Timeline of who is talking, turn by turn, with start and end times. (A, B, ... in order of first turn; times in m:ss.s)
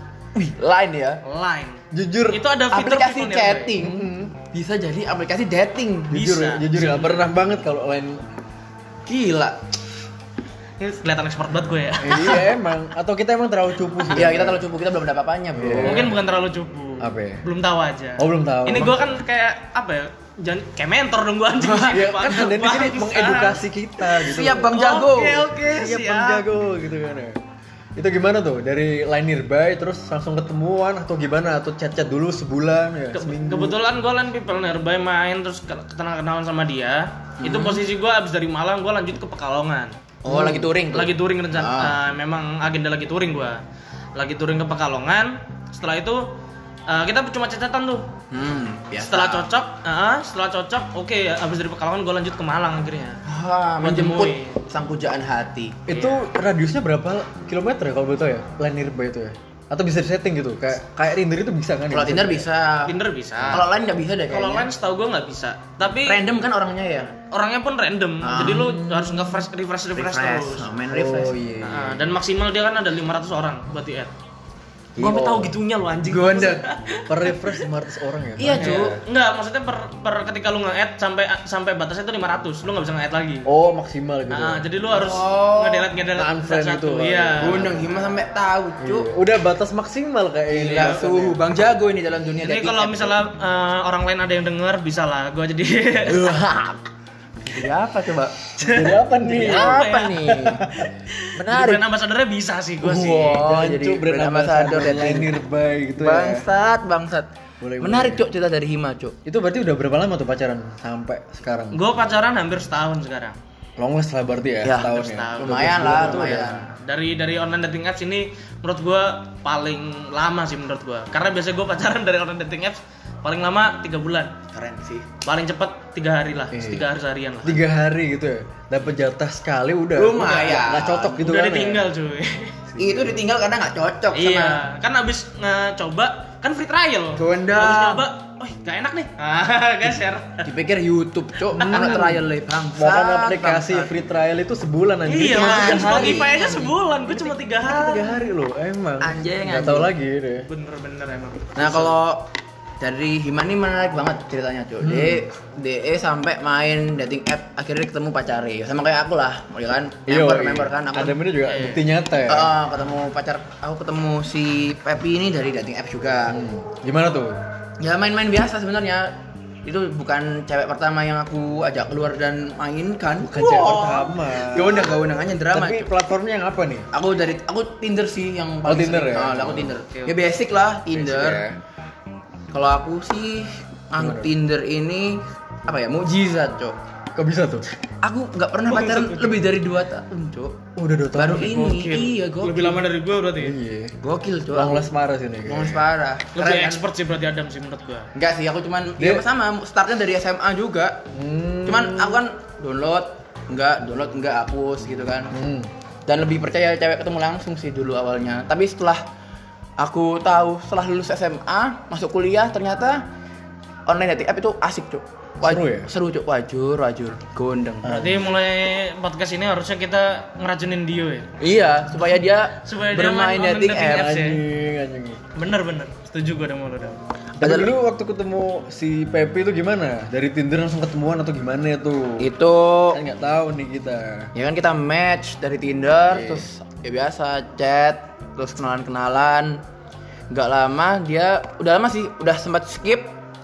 0:00.4-0:01.2 A
0:01.2-0:03.7 B
0:01.9-0:02.4 C
0:02.7-0:06.2 A
0:03.8-0:04.4 C
0:06.1-0:08.2 C
0:06.1-0:07.3 B
0:09.1-0:09.6 A
0:10.8-0:12.4 B
0:12.0-0:14.6 C
0:14.1-0:16.1 A
0:15.5-0:16.2 C
0:15.8-0:23.7 B
0:17.0-0:17.4 C
0:18.2-0:19.1 C
0:21.6-0:22.0 A
0:21.9-0:24.8 C
0:24.2-0:25.4 A
0:24.4-0:26.4 B
0:25.4-0:27.4 C
0:28.0-0:33.8 C
0:33.1-0:40.0 B
0:37.4-0:37.8 A
0:40.2-0:42.0 A
0:40.3-0:40.6 C
0:40.9-0:43.6 B
0:44.2-0:46.3 B
0:46.9-0:48.0 B
0:48.3-0:49.5 A
0:49.0-0:53.2 B
0:53.2-0:55.8 A
0:53.8-0:54.6 B
0:55.9-1:02.5 C
0:55.9-0:56.2 B
1:01.9-1:03.0 A
1:02.9-1:03.7 B
1:03.5-1:04.7 A
1:04.3-1:06.2 B
1:06.0-1:07.1 A
1:07.3-1:10.7 B
1:08.2-1:08.7 A
1:08.4-1:09.4 C
1:10.0-1:11.4 A
1:10.9-1:12.0 C
1:11.6-1:14.1 B
1:15.0-1:17.7 B
1:15.0-1:15.5 A
1:15.0-1:15.4 C
1:16.0-1:16.7 A
1:17.1-1:19.0 C
1:18.4-1:19.0 A
1:18.4-1:23.5 B
1:23.4-1:24.6 C
1:24.3-1:27.7 B
1:24.9-1:25.9 A
1:26.1-1:28.1 C
1:27.4-1:29.1 A
1:28.8-1:31.5 C
1:30.5-1:33.2 A
1:32.4-1:36.4 B
1:36.1-1:36.9 A
1:37.4-1:38.4 A
1:38.6-1:40.5 B
1:38.6-1:40.9 C
1:39.2-1:40.7 A
1:41.1-1:43.4 B
1:41.4-1:41.8 A
1:42.8-1:45.3 A
1:42.8-1:46.4 C
1:46.0-1:47.3 A
1:47.6-1:48.2 C
1:47.8-1:49.2 A
1:49.2-1:51.8 C
1:51.7-1:53.4 B
1:53.8-1:56.6 C
1:54.6-1:56.7 A
1:54.8-2:04.3 B
2:04.5-2:05.1 A
2:05.2-2:07.6 B
2:06.5-2:06.9 C
2:07.4-2:11.9 C
2:10.0-2:11.2 A
2:11.1-2:12.6 B
2:12.7-2:13.2 C
2:12.8-2:14.6 A
2:14.1-2:20.5 B
2:17.2-2:18.1 A
2:20.4-2:23.9 A
2:21.5-2:26.4 C
2:21.6-2:22.0 B
2:25.1-2:28.2 B
2:25.2-2:26.7 A
2:27.1-2:30.5 C
2:29.0-2:29.9 A
2:30.5-2:32.0 B
2:31.6-2:32.3 A
2:32.8-2:41.2 A
2:34.8-2:35.2 C
2:40.1-2:42.5 C
2:41.4-2:41.8 B
2:42.3-2:46.4 A
2:46.3-2:47.4 C
2:47.8-2:55.9 A
2:53.2-2:56.9 C
2:56.9-3:01.4 A
2:58.6-2:59.8 C
3:00.9-3:01.6 C
3:02.5-3:06.8 A
3:04.0-3:04.3 C
3:07.2-3:07.6 C
3:08.0-3:10.6 A
3:08.7-3:09.4 B
3:10.8-3:11.7 C
3:11.1-3:12.8 A
3:11.4-3:13.6 B
3:13.4-3:14.0 C
3:14.0-3:14.9 A
3:14.5-3:15.9 C
3:15.4-3:16.8 A
3:16.4-3:18.1 B
3:18.2-3:21.0 A
3:19.0-3:19.2 C
3:21.1-3:22.2 C
3:21.6-3:25.3 A
3:25.3-3:25.7 C
3:26.1-3:29.0 A
3:29.8-3:33.0 A
3:33.9-3:38.2 A
3:35.4-3:35.9 C
3:37.9-3:41.3 B
3:41.4-3:44.1 A
3:42.6-3:44.4 B
3:43.9-3:45.2 C
3:45.4-3:47.0 B
3:47.4-3:47.7 A
3:47.4-3:52.3 C
3:52.2-3:53.0 A
3:52.9-3:54.3 C
3:54.4-3:59.6 A
3:56.1-3:56.5 C
4:00.3-4:03.1 A